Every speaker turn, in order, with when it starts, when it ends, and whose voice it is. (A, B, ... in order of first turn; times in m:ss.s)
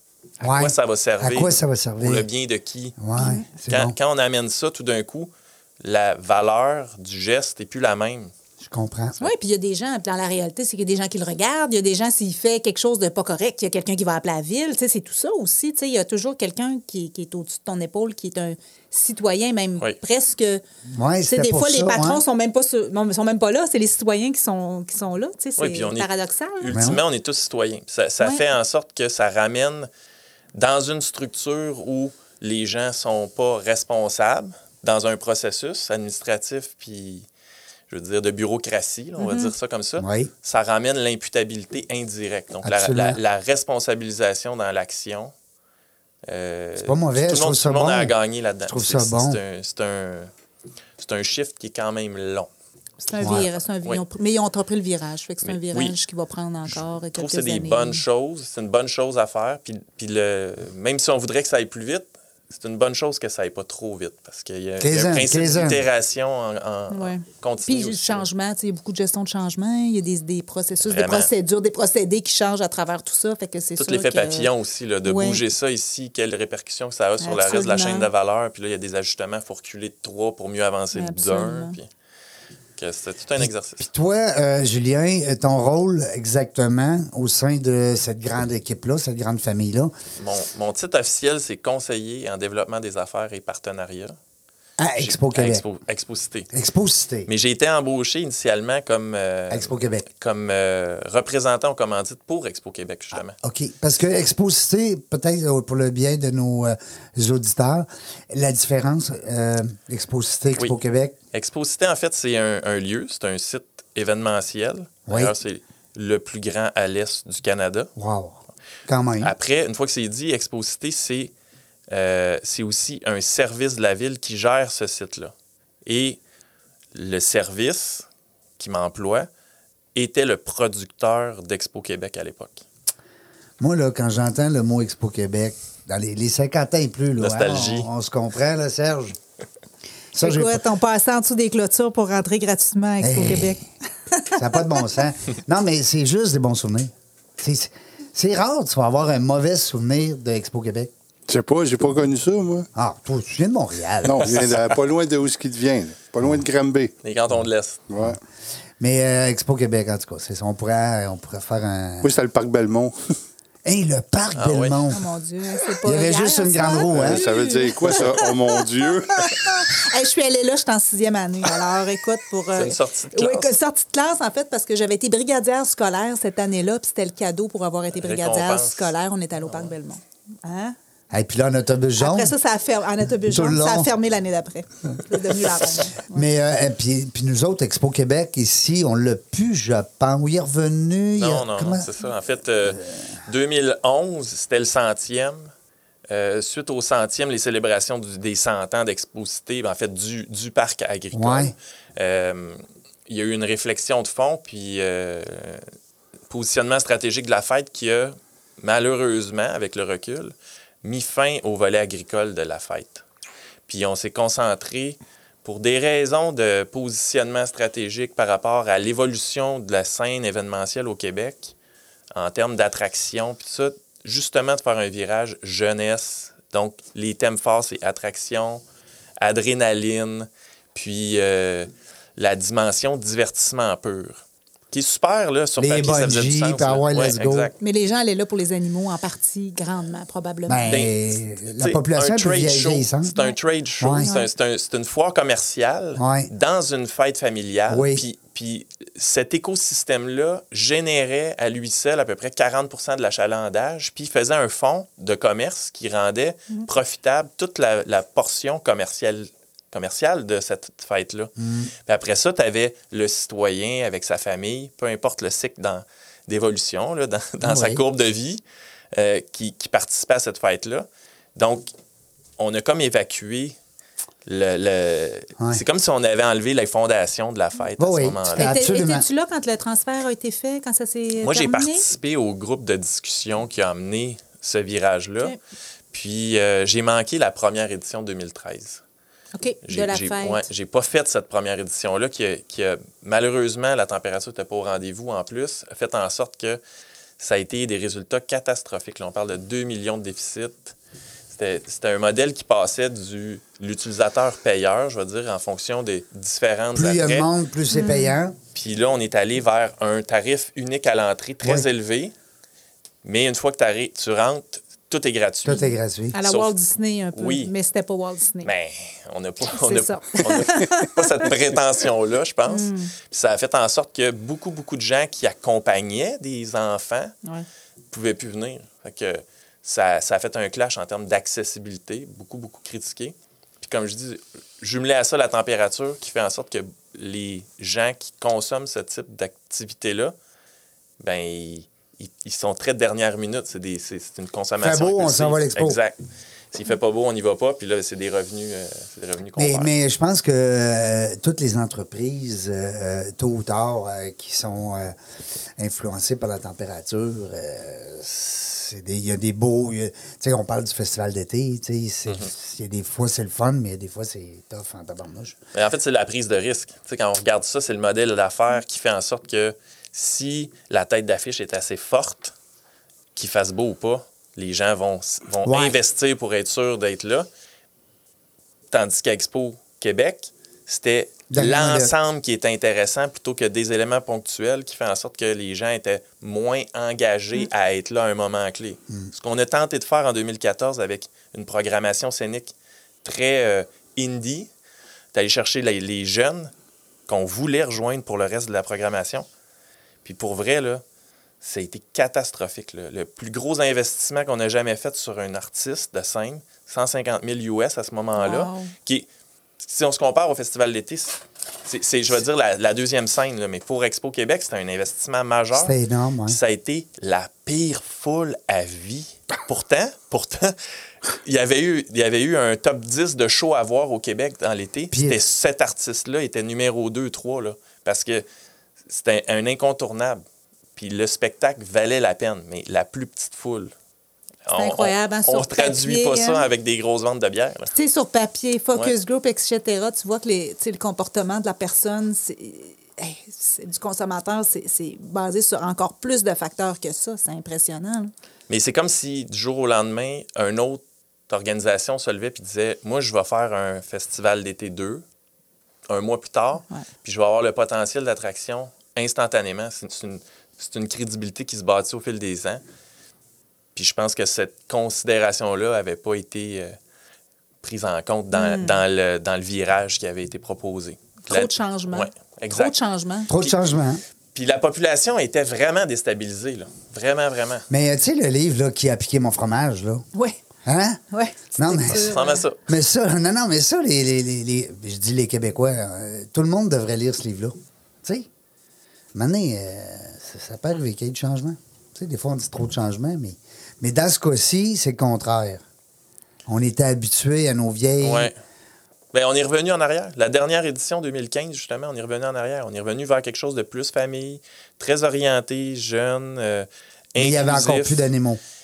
0:00.4-0:08.3 A
0:00.4-0:02.3 B
0:03.0-0:03.9 B
0:03.2-0:03.4 C
0:08.6-0:09.2 B
0:09.2-0:20.6 C
0:20.9-0:22.2 B
0:21.2-0:26.7 C
0:25.6-0:29.9 A
0:26.7-0:27.0 B
0:28.2-0:28.4 C
0:30.5-0:37.3 A
0:37.9-0:45.3 A
0:39.2-0:39.5 C
0:40.0-0:40.3 B
0:42.6-0:43.2 B
0:46.3-0:50.3 A
0:46.8-0:48.1 B
0:48.7-0:49.4 B
0:51.0-0:52.5 A
0:53.0-0:58.0 C
0:53.2-0:54.0 A
0:53.2-0:53.4 B
0:55.4-0:56.0 A
0:57.1-1:08.2 A
1:04.8-1:05.8 B
1:06.9-1:14.5 C
1:10.8-1:11.3 A
1:13.8-1:21.9 A
1:15.0-1:15.4 C
1:17.2-1:18.1 C
1:20.9-1:21.8 C
1:22.8-1:23.8 A
1:23.4-1:29.9 B
1:30.2-1:34.2 A
1:34.8-1:35.6 B
1:35.0-1:36.5 A
1:36.5-1:37.3 B
1:37.3-1:43.3 A
1:39.5-1:40.0 B
1:43.4-1:51.1 B
1:51.3-1:57.9 A
1:55.1-1:55.3 B
1:58.0-1:59.3 B
1:59.2-2:01.3 A
2:01.9-2:05.3 A
2:05.8-2:06.2 A
2:06.9-2:08.0 A
2:08.6-2:09.3 A
2:09.9-2:12.6 A
2:13.6-2:19.2 B
2:17.2-2:17.9 A
2:20.1-2:20.6 B
2:20.2-2:24.8 C
2:23.0-2:23.6 B
2:24.3-2:30.9 B
2:31.3-2:32.7 D
2:32.7-2:34.4 B
2:34.0-2:36.9 D
2:37.0-2:37.8 A
2:37.9-2:38.2 D
2:38.8-2:42.1 B
2:42.0-2:42.9 D
2:43.6-2:45.0 B
2:44.3-2:44.8 A
2:44.9-3:00.7 C
2:45.8-2:47.2 B
2:46.9-2:49.5 D
2:52.6-2:53.5 A
2:57.9-2:59.7 A
3:01.1-3:02.3 B
3:02.0-3:06.2 C
3:03.3-3:03.9 B
3:06.1-3:11.9 B
3:11.1-3:15.5 A
3:16.1-3:25.6 A
3:21.1-3:21.5 B
3:26.3-3:33.0 A
3:33.7-3:41.5 A
3:42.2-3:48.6 A
3:49.2-3:57.5 A
3:55.6-3:57.5 B
3:57.6-4:00.7 C
4:00.5-4:03.1 B
4:00.7-4:00.9 A
4:01.5-4:21.3 A
4:03.8-4:04.1 B
4:04.0-4:04.3 C
4:06.0-4:06.3 B
4:07.7-4:08.0 B
4:21.4-4:21.7 B
4:21.8-4:31.7 A
4:27.4-4:27.8 B
4:32.4-4:33.6 A
4:34.2-4:38.6 A
4:37.8-4:39.0 B
4:38.4-4:41.8 C
4:41.2-4:45.4 A
4:45.9-4:48.8 A
4:49.3-4:50.4 C
4:49.7-4:56.6 A
4:57.2-5:00.7 A
5:01.3-5:07.3 A
5:06.7-5:08.4 B
5:07.7-5:08.1 C
5:08.5-5:12.1 A
5:13.0-5:15.6 A
5:15.4-5:16.2 B
5:15.5-5:18.5 C
5:16.2-5:16.5 A
5:17.1-5:17.5 A
5:18.4-5:27.1 A
5:19.5-5:21.3 C
5:22.5-5:22.9 C
5:27.9-5:40.1 A
5:41.0-5:46.0 A
5:44.6-5:45.8 B
5:46.5-5:49.7 A
5:49.4-5:54.9 B
5:55.6-6:05.4 B
6:05.5-6:12.3 A
6:13.2-6:17.3 A
6:15.4-6:15.8 B
6:18.7-6:34.5 A
6:21.3-6:21.9 B
6:35.1-6:36.5 A
6:37.1-6:39.2 A
6:40.0-6:40.8 A
6:41.4-6:49.0 A
6:48.2-6:48.7 C
6:49.6-6:55.7 A
6:55.5-6:56.4 B
6:56.3-7:00.5 A
7:01.1-7:08.2 A
7:04.9-7:05.2 B
7:08.9-7:10.2 A
7:10.8-7:13.7 A
7:14.4-7:17.7 A
7:14.5-7:16.4 C
7:17.7-7:28.1 C
7:28.5-7:35.0 A
7:35.9-7:42.6 A
7:43.7-7:46.8 A
7:47.6-7:52.7 A
7:48.3-7:48.8 C
7:51.3-7:53.4 C
7:53.3-7:54.0 B
7:54.3-7:57.6 A
7:57.7-8:00.0 B
8:00.6-8:01.0 B
8:01.1-8:02.4 C
8:01.6-8:02.1 B
8:01.9-8:02.6 A
8:02.7-8:08.3 B
8:09.1-8:15.6 B
8:16.5-8:18.3 B
8:18.0-8:18.3 A
8:19.1-8:28.1 A
8:27.2-8:28.4 B